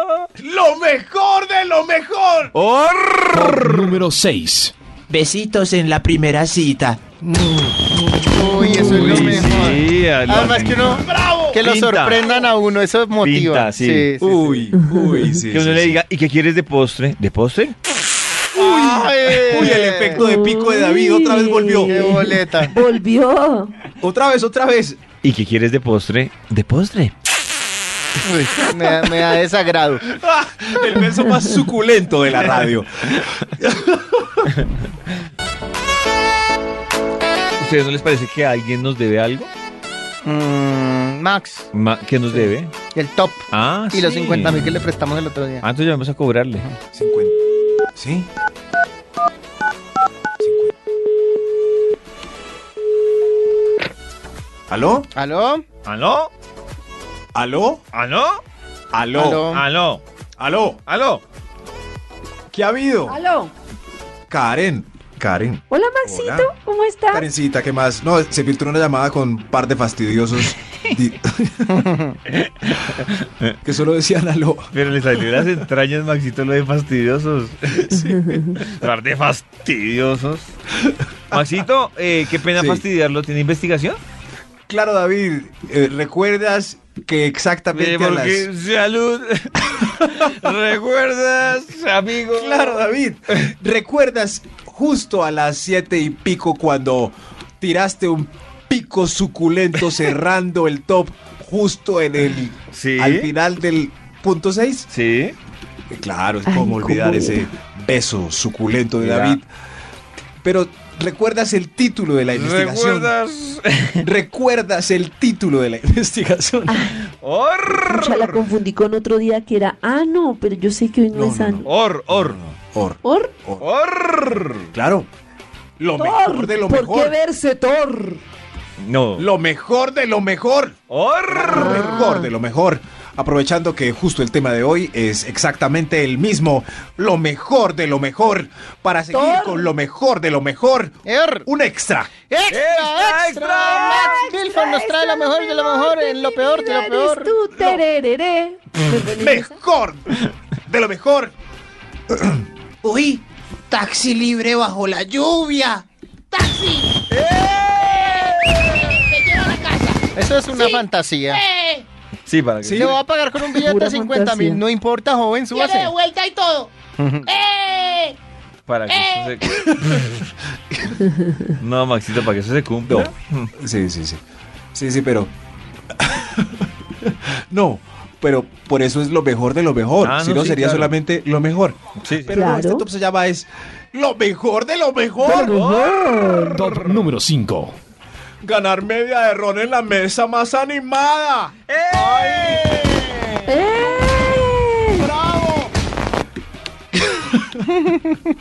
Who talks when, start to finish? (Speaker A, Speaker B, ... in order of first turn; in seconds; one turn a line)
Speaker A: 0.4-2.5
Speaker B: 2.5-4.0
Speaker C: 3.3-4.7
Speaker A: 5.1-9.7
Speaker D: 5.1-6.8
Speaker E: 8.3-14.7
Speaker F: 8.5-9.1
Speaker B: 8.6-12.5
Speaker A: 11.0-11.6
Speaker B: 13.2-14.2
Speaker A: 14.2-16.0
Speaker F: 14.8-15.3
Speaker B: 15.5-17.7
Speaker E: 18.5-20.2
Speaker A: 18.5-22.0
Speaker F: 20.1-23.7
Speaker E: 21.9-22.7
Speaker A: 24.0-25.0
Speaker B: 25.2-27.1
Speaker E: 28.2-30.0
Speaker A: 30.1-34.5
Speaker B: 37.6-39.5
Speaker E: 40.2-41.7
Speaker B: 41.7-42.7
Speaker E: 42.3-45.6
Speaker B: 43.5-44.8
Speaker B: 45.6-46.7
Speaker A: 46.9-47.4
Speaker A: 48.0-48.3
Speaker A: 50.4-50.7
Speaker A: 54.7-55.1
Speaker E: 55.1-55.6
Speaker B: 55.9-56.3
Speaker A: 57.3-57.8
Speaker B: 57.9-58.4
Speaker A: 58.9-59.5
Speaker E: 59.1-59.6
Speaker B: 59.5-60.0
Speaker A: 60.4-60.8
Speaker B: 60.9-61.2
Speaker A: 62.5-63.2
Speaker F: 63.1-63.5
Speaker A: 64.3-66.5
Speaker F: 65.7-67.3
Speaker A: 67.1-71.9
Speaker E: 71.8-72.1
Speaker B: 72.5-73.5
Speaker A: 73.6-74.7
Speaker B: 74.7-78.0
Speaker A: 77.7-78.6
Speaker F: 78.0-78.4
Speaker B: 78.6-80.5
Speaker A: 80.8-81.6
Speaker B: 81.3-84.0
Speaker A: 82.5-82.8
Speaker A: 84.7-88.5
Speaker B: 87.7-92.8
Speaker A: 92.3-104.9
Speaker B: 102.7-103.3
Speaker B: 104.9-105.3
Speaker A: 105.9-109.5
Speaker F: 106.5-107.5
Speaker B: 109.0-109.4
Speaker A: 110.4-113.1
Speaker B: 112.3-114.0
Speaker A: 114.0-116.9
Speaker B: 117.2-118.3
Speaker F: 117.8-121.7
Speaker A: 121.1-123.7
Speaker B: 121.6-122.4
Speaker F: 123.0-123.3
Speaker B: 123.6-124.7
Speaker A: 124.7-125.1
Speaker A: 125.8-127.2
Speaker F: 125.9-128.2
Speaker B: 128.8-129.3
Speaker A: 129.2-130.8
Speaker B: 130.9-132.0
Speaker A: 131.3-142.1
Speaker F: 131.5-132.3
Speaker F: 139.1-139.7
Speaker E: 141.1-141.4
Speaker E: 142.2-147.3
Speaker B: 142.5-144.3
Speaker F: 144.1-149.6
Speaker A: 147.6-147.8
Speaker A: 149.0-151.3
Speaker A: 152.1-152.4
Speaker D: 152.8-153.2
Speaker D: 153.7-157.0
Speaker B: 157.1-158.6
Speaker D: 157.7-161.8
Speaker E: 160.1-161.4
Speaker B: 162.2-163.0
Speaker A: 162.6-163.0
Speaker E: 162.7-165.9
Speaker F: 163.6-164.6
Speaker D: 165.5-168.2
Speaker E: 167.0-167.3
Speaker B: 168.7-170.3
Speaker D: 168.9-169.3
Speaker A: 169.4-169.9
Speaker B: 171.6-173.5
Speaker A: 172.8-174.2
Speaker A: 174.7-175.3
Speaker A: 176.0-185.5
Speaker B: 180.0-180.9
Speaker B: 182.0-182.4
Speaker F: 182.3-182.8
Speaker F: 185.2-186.6
Speaker B: 185.5-186.7
Speaker C: 186.5-187.8
Speaker A: 188.4-192.5
Speaker B: 191.7-193.3
Speaker F: 193.4-195.0
Speaker A: 194.9-195.7
Speaker A: 196.9-197.7